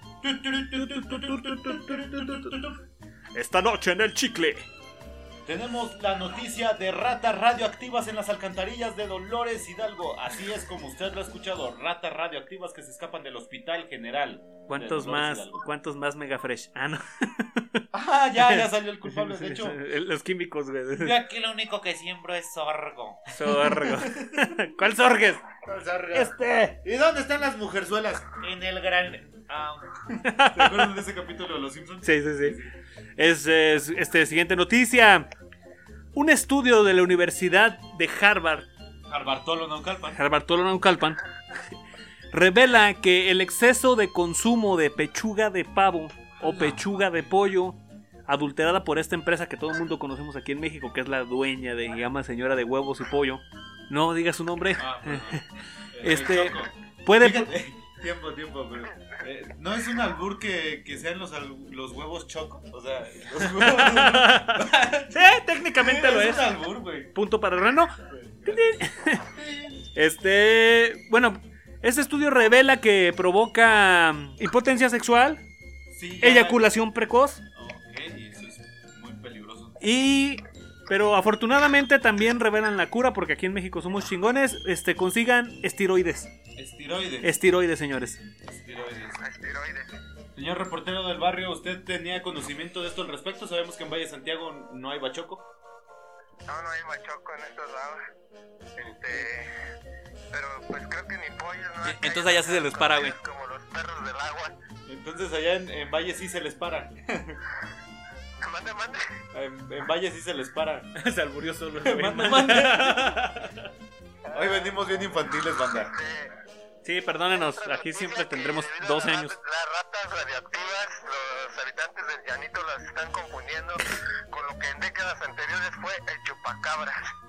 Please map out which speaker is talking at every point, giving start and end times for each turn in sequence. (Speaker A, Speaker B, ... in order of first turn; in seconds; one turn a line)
Speaker A: 0.2-2.8
Speaker B: 0.7-2.6
Speaker B: 3.3-4.7
Speaker A: 5.4-15.7
Speaker B: 14.7-17.8
Speaker A: 17.9-19.8
Speaker B: 18.4-21.2
Speaker A: 21.0-24.5
Speaker B: 23.3-25.4
Speaker A: 25.6-32.7
Speaker B: 26.1-26.8
Speaker B: 30.2-31.0
Speaker B: 32.0-32.6
Speaker B: 33.2-35.3
Speaker B: 36.1-38.7
Speaker A: 39.1-40.2
Speaker B: 40.1-41.7
Speaker B: 42.3-55.4
Speaker A: 46.4-47.0
Speaker A: 54.8-67.1
Speaker B: 56.0-57.5
Speaker B: 63.4-66.5
Speaker B: 67.1-69.3
Speaker A: 68.1-69.8
Speaker B: 69.9-75.4
Speaker A: 75.9-76.7
Speaker B: 76.2-77.4
Speaker A: 77.5-79.8
Speaker B: 79.8-86.3
Speaker A: 86.6-87.4
Speaker B: 87.2-88.2
Speaker A: 88.5-89.3
Speaker C: 89.2-90.0
Speaker A: 90.3-95.5
Speaker C: 96.5-98.0
Speaker C: 98.8-99.5
Speaker C: 100.3-104.5
Speaker B: 101.8-103.2
Speaker A: 104.9-107.4
Speaker C: 108.4-109.1
Speaker A: 109.3-110.9
Speaker B: 110.9-113.7
Speaker A: 111.8-113.2
Speaker C: 114.2-116.3
Speaker A: 114.3-115.9
Speaker B: 116.8-119.3
Speaker C: 117.3-127.1